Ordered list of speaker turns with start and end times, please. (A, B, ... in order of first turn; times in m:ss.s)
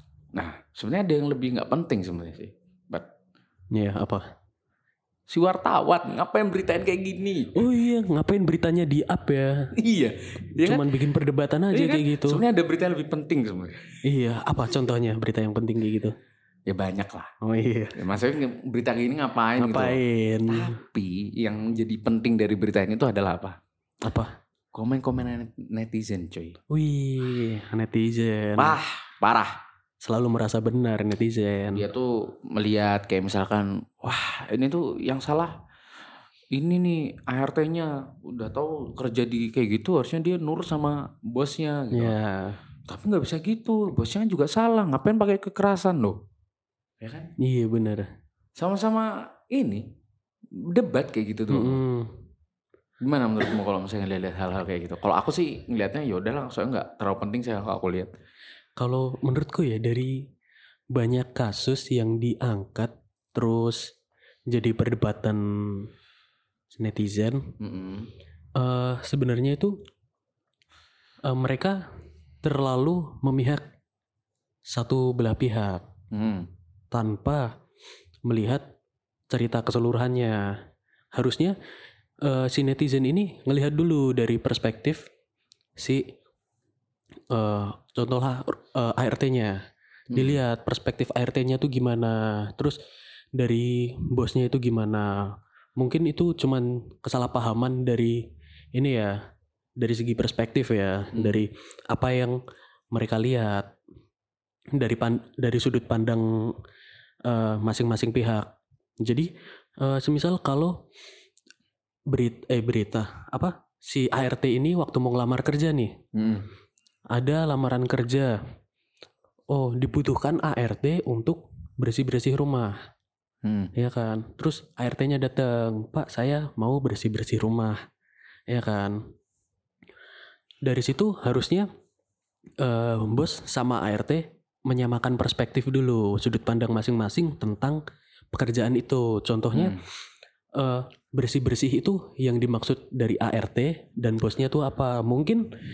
0:00.3-0:03.1 A
0:03.7-0:04.3 B
0:05.3-0:07.5 A
0:07.5-0:09.7 B
0:09.8-0:11.0 A
0:10.6-0:12.4 B
0:11.7-0:13.9 A
0:14.0-0:16.1 B
0:16.7-0:17.3 A
0:17.4-0:18.0 B
0:17.9-0:23.6 A
0:19.6-0:20.8 B
0:24.0-0:24.3 B
0:24.7-0:26.6 A
0:26.7-0:28.8 B
0:28.6-0:29.6 A
0:30.0-0:31.8 B
0:31.7-0:35.6 A
0:36.5-0:42.1 A
0:41.9-0:42.6 B
0:42.9-0:46.2 A
0:47.0-0:47.3 A
0:47.4-0:48.1 B
0:48.6-0:49.8 A
0:50.6-0:51.8 A
0:51.5-0:52.1 B
0:53.0-0:58.1 A
0:58.8-1:00.3 B
1:00.9-1:03.9 B
1:04.5-1:05.9 B
1:06.7-1:07.5 B
1:07.6-1:08.1 A
1:08.6-1:09.8 B
1:11.2-1:11.8 B
1:12.4-1:13.6 B
1:14.7-1:15.9 B
1:16.1-1:16.5 A
1:16.9-1:17.6 B
1:18.2-1:18.6 B
1:19.3-1:20.6 B
1:21.1-1:21.6 B
1:22.2-1:25.1 B
1:25.8-1:26.1 B
1:27.3-1:32.8 B
1:30.1-1:30.4 A
1:33.3-1:39.2 B
1:39.8-1:42.4 B
1:41.1-1:41.4 A
1:42.9-1:43.8 B
1:44.7-1:46.6 B
1:47.2-1:50.8 B
1:52.1-1:56.0 B
1:56.1-1:56.5 A
1:57.1-1:58.4 B
1:59.5-2:02.8 B
2:03.4-2:03.7 A
2:03.7-2:07.8 B
2:08.5-2:09.1 B
2:10.6-2:11.7 B
2:12.6-2:17.8 B
2:18.3-2:19.8 B
2:19.5-2:19.8 A
2:20.6-2:25.5 B